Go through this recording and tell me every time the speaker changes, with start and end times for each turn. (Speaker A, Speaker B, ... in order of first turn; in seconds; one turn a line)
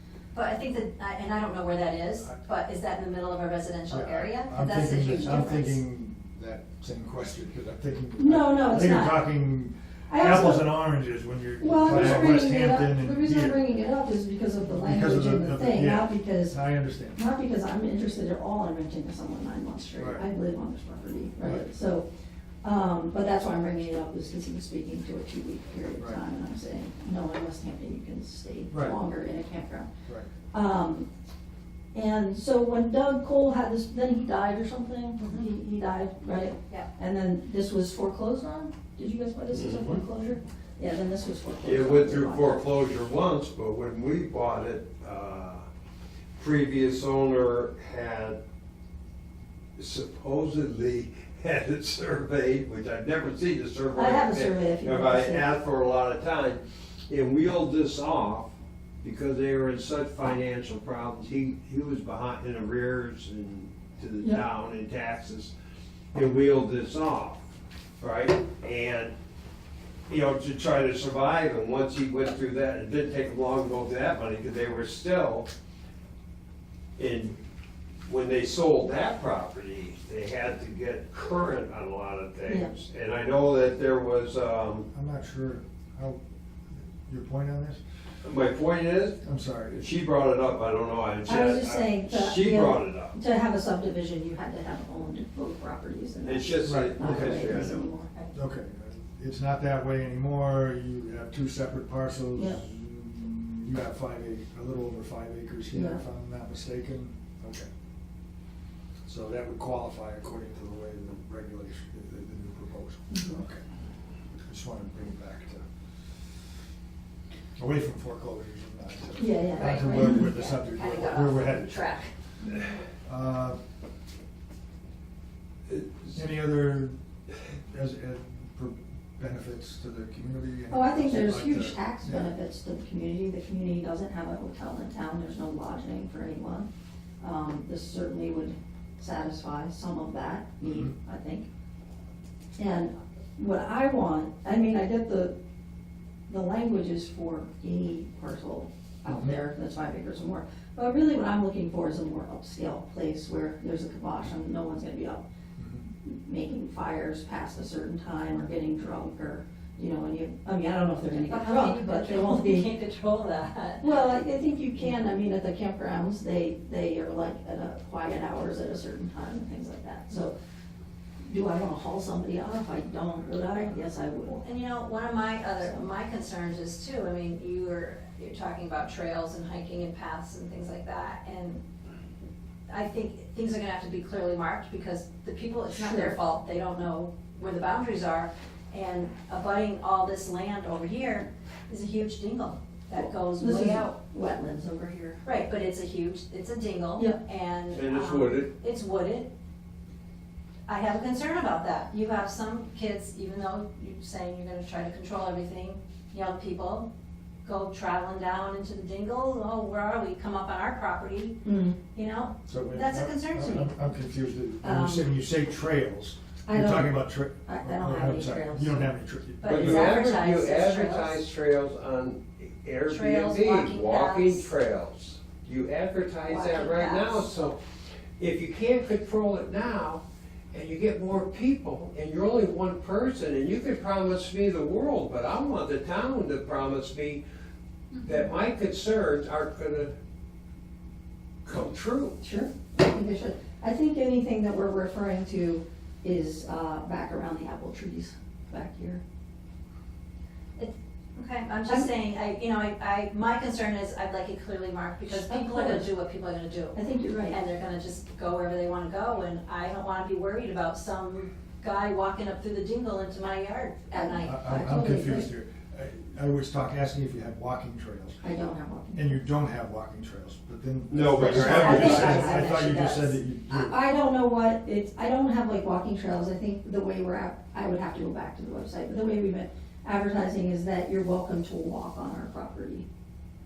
Speaker A: 0.3-5.8
Speaker B: 3.9-13.6
Speaker C: 8.2-9.3
Speaker C: 10.1-10.7
Speaker C: 11.6-16.6
Speaker D: 11.9-12.3
Speaker B: 14.6-17.2
Speaker C: 17.1-22.1
Speaker B: 20.0-20.2
Speaker C: 22.6-29.9
Speaker B: 28.7-28.9
Speaker C: 30.5-31.1
Speaker C: 31.9-42.6
Speaker A: 35.2-35.5
Speaker D: 39.5-39.9
Speaker D: 41.6-45.7
Speaker D: 46.4-48.4
Speaker D: 49.8-58.5
Speaker C: 53.9-55.5
Speaker D: 59.0-65.5
Speaker D: 66.1-67.5
Speaker D: 68.0-69.1
Speaker D: 70.1-75.5
Speaker D: 77.0-77.4
Speaker D: 78.0-84.9
Speaker B: 84.9-86.2
Speaker B: 86.8-87.8
Speaker D: 88.2-89.2
Speaker B: 89.2-89.8
Speaker D: 89.7-93.1
Speaker C: 91.2-98.1
Speaker D: 96.2-97.9
Speaker B: 96.6-97.6
Speaker B: 98.3-107.7
Speaker C: 102.3-102.6
Speaker C: 105.7-106.0
Speaker B: 109.0-113.6
Speaker C: 113.1-113.4
Speaker B: 114.5-115.7
Speaker B: 117.6-122.0
Speaker C: 119.2-120.3
Speaker A: 119.6-122.1
Speaker B: 123.0-123.6
Speaker D: 125.7-126.1
Speaker B: 126.1-127.0
Speaker B: 127.7-132.3
Speaker C: 130.7-136.7
Speaker C: 137.2-141.5
Speaker B: 140.6-140.9
Speaker C: 142.6-145.3
Speaker C: 146.3-155.2
Speaker B: 149.1-149.4
Speaker B: 155.6-155.8
Speaker C: 156.0-162.7
Speaker A: 161.1-164.0
Speaker C: 163.8-170.3
Speaker C: 171.2-174.4
Speaker A: 174.4-181.6
Speaker A: 182.7-193.9
Speaker C: 185.7-186.1
Speaker C: 193.3-195.2
Speaker A: 195.2-199.3
Speaker D: 197.7-198.5
Speaker A: 200.7-206.9
Speaker A: 207.4-211.4
Speaker C: 211.4-211.8
Speaker A: 211.9-213.8
Speaker B: 212.5-219.9
Speaker C: 214.6-215.1
Speaker C: 216.4-218.9
Speaker A: 219.4-221.2
Speaker D: 219.4-227.6
Speaker A: 222.8-224.5
Speaker A: 226.2-227.3
Speaker D: 228.2-237.2
Speaker D: 238.0-239.9
Speaker D: 241.4-242.2
Speaker C: 242.2-249.0
Speaker A: 250.6-264.5
Speaker C: 255.1-255.9
Speaker C: 256.7-257.4
Speaker C: 263.9-265.3
Speaker B: 264.2-268.2
Speaker C: 268.2-269.2
Speaker B: 268.9-273.8
Speaker D: 270.9-272.4
Speaker A: 271.3-273.1
Speaker C: 271.6-272.4
Speaker C: 273.5-282.9